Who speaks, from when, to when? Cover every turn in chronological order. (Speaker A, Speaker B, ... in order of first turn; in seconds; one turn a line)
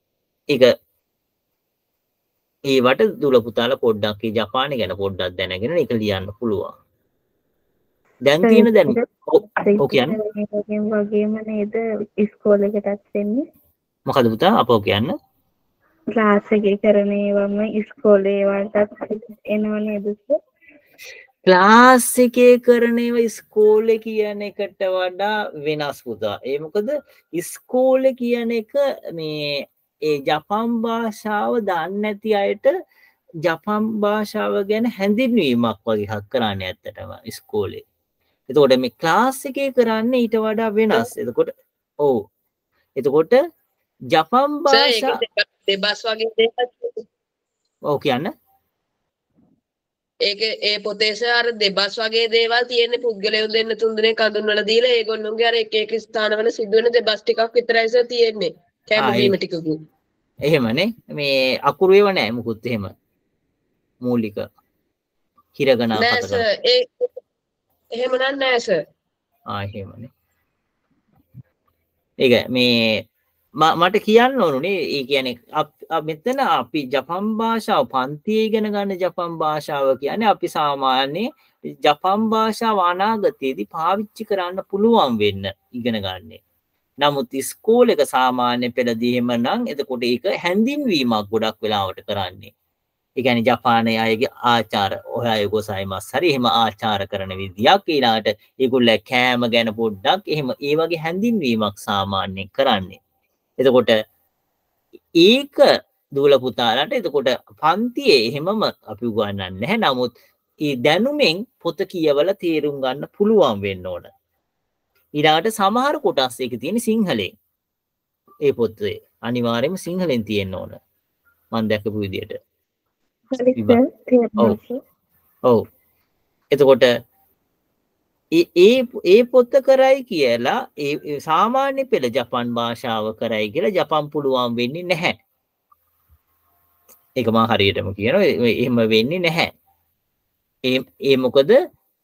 Speaker A: 2.7-6.7
Speaker A: 8.2-10.2
Speaker B: 8.4-13.4
Speaker A: 14.1-15.1
Speaker B: 16.1-20.4
Speaker A: 21.5-32.7
Speaker A: 33.4-37.8
Speaker A: 38.5-41.5
Speaker A: 43.0-43.4
Speaker A: 44.1-45.2
Speaker C: 44.7-47.0
Speaker A: 47.9-48.3
Speaker C: 50.2-59.8
Speaker A: 59.0-59.3
Speaker A: 60.5-62.9
Speaker A: 64.0-64.5
Speaker A: 65.6-66.4
Speaker C: 66.0-67.1
Speaker C: 68.0-68.8
Speaker A: 69.5-70.1
Speaker A: 72.2-73.0
Speaker A: 73.6-86.4
Speaker A: 87.0-92.5
Speaker A: 93.2-103.0
Speaker A: 103.6-104.0
Speaker A: 105.2-110.1
Speaker A: 110.6-114.1
Speaker A: 115.2-117.3
Speaker A: 118.4-120.8
Speaker A: 121.5-122.4
Speaker B: 123.3-124.8
Speaker A: 126.5-126.9
Speaker A: 128.3-135.2
Speaker A: 137.2-139.5
Speaker A: 140.7-141.6